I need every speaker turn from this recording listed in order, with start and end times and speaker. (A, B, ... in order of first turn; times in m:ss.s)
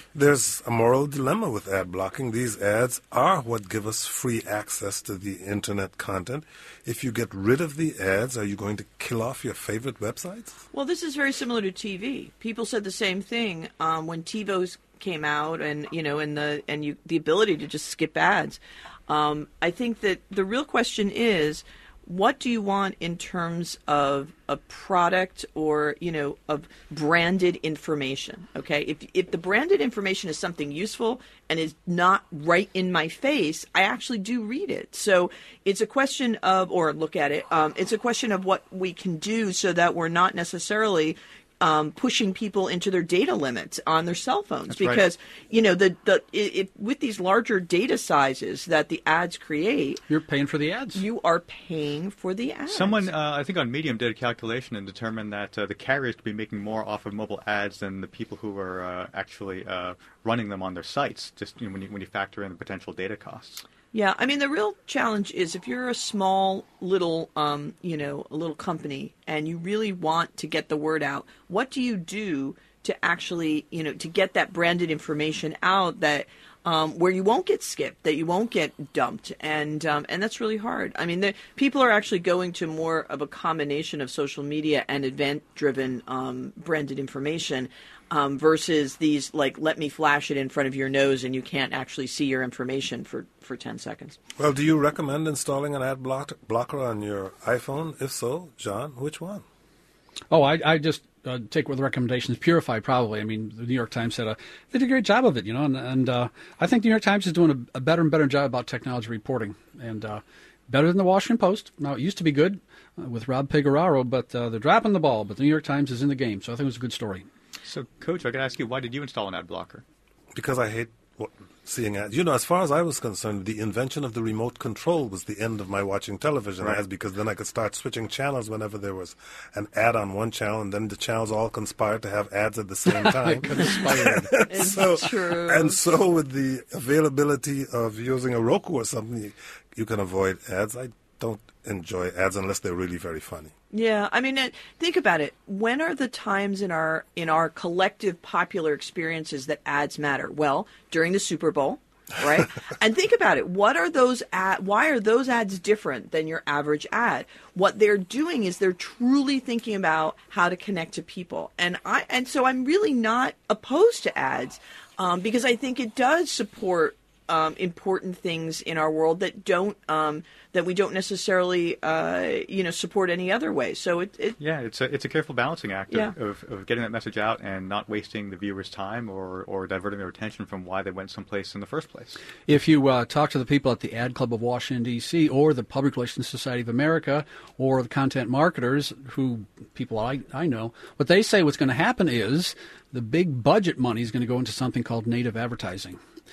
0:00.1-0:10.6 A
0:10.7-0:50.0 B
0:44.7-0:45.0 C
0:50.1-0:51.0 D
0:50.9-0:53.1 B
0:52.7-1:03.6 C
1:03.9-1:34.2 B
1:34.4-1:39.4 A
1:40.3-1:57.2 D
1:57.6-1:59.8 C
2:00.3-2:23.5 A
2:12.9-2:14.9 D
2:14.5-2:15.8 B
2:23.7-2:54.4 B
2:54.4-3:02.2 C
3:02.5-3:16.0 D